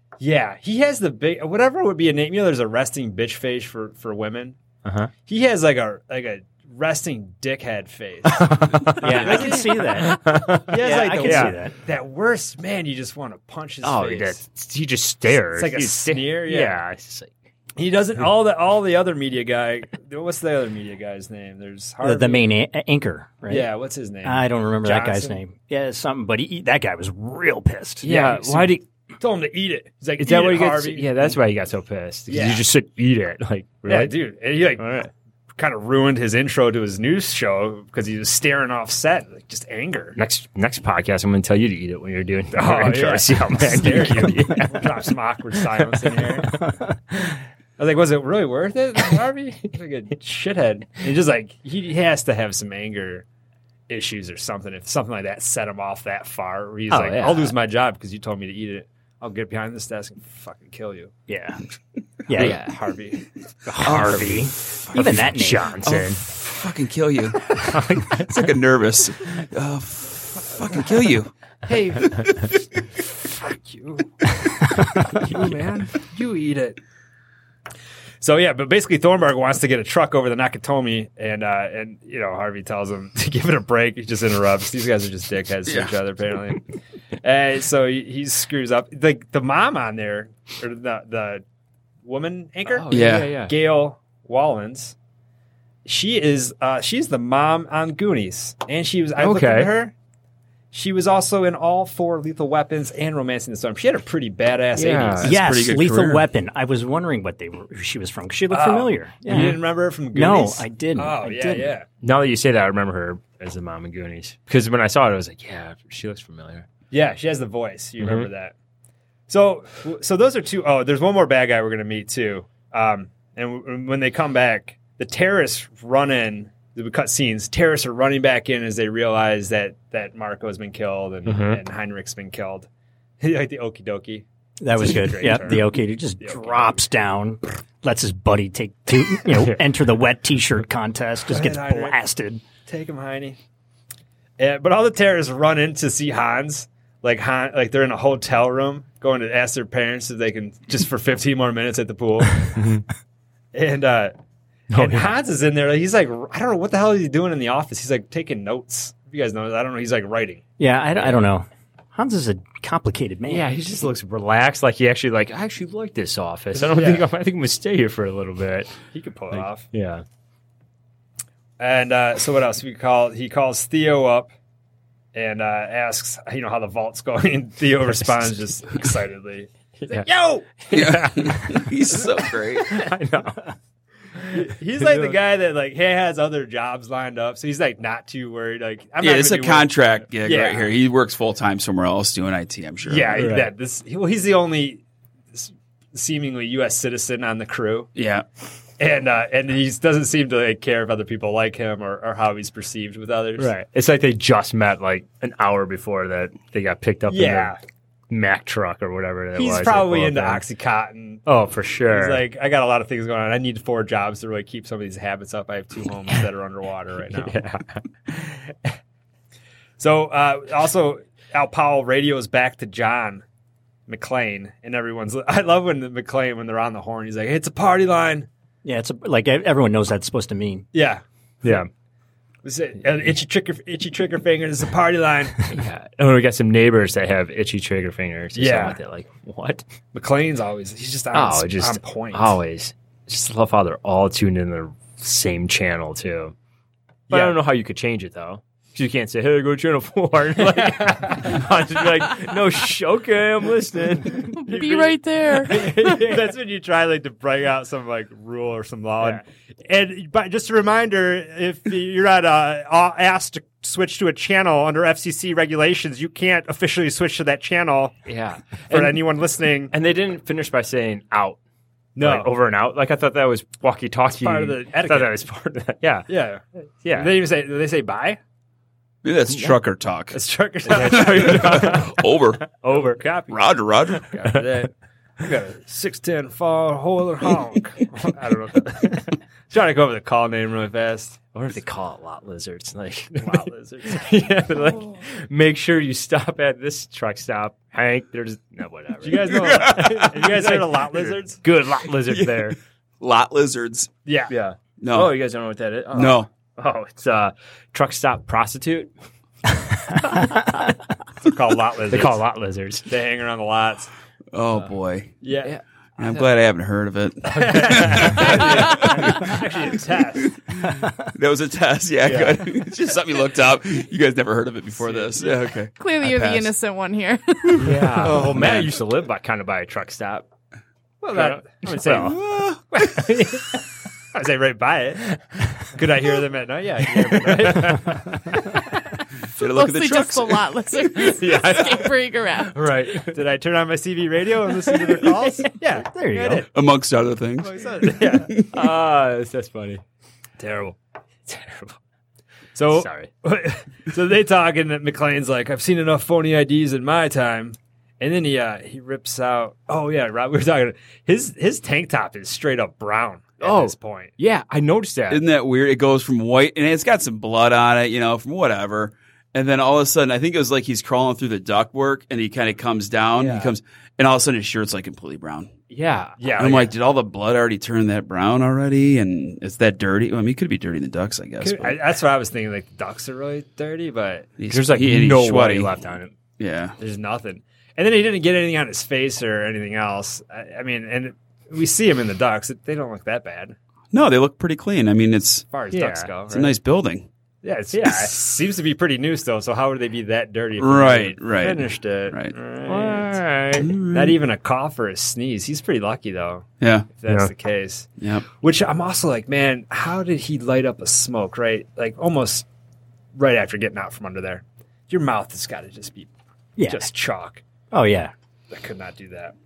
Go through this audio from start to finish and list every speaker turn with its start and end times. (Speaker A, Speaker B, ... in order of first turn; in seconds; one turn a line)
Speaker A: 0.2-4.5
Speaker B: 4.8-5.1
Speaker A: 5.2-10.1
Speaker B: 8.3-11.6
Speaker C: 9.0-11.8
Speaker A: 10.7-14.4
Speaker B: 13.8-17.3
Speaker A: 15.4-16.8
Speaker A: 17.8-22.5
Speaker C: 22.0-23.7
Speaker A: 23.5-25.4
Speaker C: 24.2-28.1
Speaker B: 28.0-28.8
Speaker A: 28.0-31.4
Speaker B: 30.2-34.1
Speaker A: 32.3-32.6
Speaker A: 33.9-35.0
Speaker B: 34.8-35.1
Speaker A: 35.5-40.2
Speaker B: 40.1-44.9
Speaker A: 42.5-46.6
Speaker B: 45.8-46.3
Speaker A: 47.8-53.2
Speaker A: 53.9-61.1
Speaker B: 56.9-57.5
Speaker C: 61.3-61.6
Speaker C: 62.3-62.6
Speaker A: 62.3-63.2
Speaker B: 62.3-62.8
Speaker C: 63.6-65.8
Speaker B: 63.8-66.2
Speaker D: 64.1-65.2
Speaker D: 65.8-71.3
Speaker B: 67.7-68.4
Speaker A: 71.7-72.5
Speaker A: 73.2-74.3
Speaker A: 75.0-76.8
Speaker A: 78.2-91.4
Speaker D: 85.7-85.9
Speaker A: 92.0-94.9
Speaker B: 92.7-93.5
Speaker D: 92.9-93.3
Speaker A: 95.8-99.9
Speaker B: 99.2-99.7
Speaker A: 100.7-105.3
Speaker B: 104.7-105.3
Speaker C: 105.2-109.6
Speaker D: 105.2-106.2
Speaker A: 108.5-111.8
Speaker C: 110.1-111.8
Speaker B: 112.0-116.7
Speaker A: 116.9-118.5
Speaker B: 118.0-118.3
Speaker A: 119.3-132.7
Speaker B: 131.2-131.6
Speaker A: 133.2-136.8
Speaker C: 134.6-142.4
Speaker A: 141.3-142.0
Speaker A: 142.6-143.4
Speaker A: 144.4-152.6
Speaker B: 152.6-152.8
Speaker A: 153.5-154.1
Speaker B: 154.7-155.2
Speaker A: 154.7-160.4
Speaker C: 160.6-163.5
Speaker B: 163.3-168.7
Speaker A: 166.5-167.1
Speaker A: 168.9-169.7
Speaker B: 169.3-170.0
Speaker A: 171.6-174.3
Speaker A: 175.1-180.5
Speaker B: 179.8-180.1
Speaker B: 180.6-181.7
Speaker D: 180.7-182.7
Speaker B: 182.6-183.5
Speaker A: 184.3-190.7
Speaker B: 184.8-185.2
Speaker D: 189.0-193.3
Speaker A: 192.8-194.8
Speaker B: 193.1-193.5
Speaker A: 195.3-197.9
Speaker D: 197.9-198.2
Speaker A: 198.8-203.5
Speaker B: 203.4-207.5
Speaker A: 207.1-207.6
Speaker B: 208.1-210.4
Speaker A: 209.3-211.2
Speaker B: 211.2-212.2
Speaker A: 211.9-217.4
Speaker B: 217.1-218.5
Speaker A: 219.8-223.2
Speaker A: 223.9-228.3
Speaker C: 228.6-230.7
Speaker A: 230.7-231.6
Speaker A: 232.4-235.5
Speaker B: 235.5-239.6
Speaker A: 238.3-238.8
Speaker A: 239.9-242.4
Speaker B: 241.1-246.3
Speaker A: 247.1-247.4
Speaker B: 247.1-254.4
Speaker A: 250.5-251.3
Speaker E: 254.3-256.0
Speaker A: 254.5-267.9
Speaker B: 268.1-269.0
Speaker A: 268.7-269.7
Speaker B: 269.7-271.4
Speaker A: 271.9-272.3
Speaker B: 272.0-276.1
Speaker A: 274.1-275.2
Speaker A: 276.1-278.2
Speaker B: 276.8-277.1
Speaker D: 279.0-280.2
Speaker B: 279.3-279.5
Speaker A: 280.1-281.9
Speaker B: 280.7-281.9
Speaker D: 280.8-282.5
Speaker B: 282.5-283.3
Speaker A: 283.0-283.3
Speaker D: 283.3-284.1
Speaker A: 284.1-291.2
Speaker B: 291.3-302.6
Speaker A: 293.2-294.2
Speaker A: 299.0-301.4
Speaker D: 299.3-300.1
Speaker D: 302.1-303.9
Speaker A: 304.1-304.3
Speaker B: 304.3-308.9
Speaker D: 304.8-305.1
Speaker D: 305.9-306.3
Speaker B: 310.1-310.5
Speaker A: 311.2-312.2
Speaker B: 311.9-312.9
Speaker A: 312.9-313.9
Speaker D: 314.3-315.1
Speaker A: 315.2-315.5
Speaker B: 315.4-316.3
Speaker D: 316.0-319.4
Speaker A: 317.3-320.4
Speaker B: 317.8-319.0
Speaker D: 320.5-326.5
Speaker B: 322.0-322.3
Speaker A: 324.9-325.2
Speaker E: 325.8-327.7
Speaker D: 327.5-328.7
Speaker B: 327.6-330.2
Speaker A: 331.0-332.2
Speaker B: 331.1-332.2
Speaker D: 332.0-332.6
Speaker A: 332.7-333.1
Speaker B: 332.8-333.6
Speaker A: 334.1-338.2
Speaker B: 337.2-337.9
Speaker D: 339.4-341.1
Speaker E: 339.4-342.6
Speaker B: 341.2-341.7
Speaker B: 342.5-343.1
Speaker A: 342.9-346.5
Speaker C: 345.8-346.5
Speaker D: 346.5-348.4
Speaker A: 347.4-348.4
Speaker B: 348.3-349.8
Speaker A: 350.4-350.8
Speaker B: 351.3-351.7
Speaker A: 352.5-364.1
Speaker B: 352.7-353.1
Speaker B: 363.4-365.2
Speaker D: 365.1-375.5
Speaker A: 373.2-373.5
Speaker B: 375.7-376.2
Speaker A: 376.2-376.7
Speaker D: 376.4-381.8
Speaker A: 381.4-384.3
Speaker D: 384.4-385.8
Speaker B: 384.5-386.1
Speaker D: 386.4-386.8
Speaker A: 386.8-393.6
Speaker D: 393.9-395.5
Speaker A: 395.5-396.5
Speaker B: 395.7-396.1
Speaker D: 396.3-397.1
Speaker A: 397.4-403.2
Speaker B: 397.7-398.1
Speaker D: 400.6-402.3
Speaker B: 402.7-403.7
Speaker D: 403.6-404.2
Speaker A: 403.9-412.4
Speaker D: 406.6-406.9
Speaker D: 408.0-408.2
Speaker A: 413.1-417.4
Speaker C: 416.6-416.9
Speaker C: 417.7-418.1
Speaker A: 418.5-419.3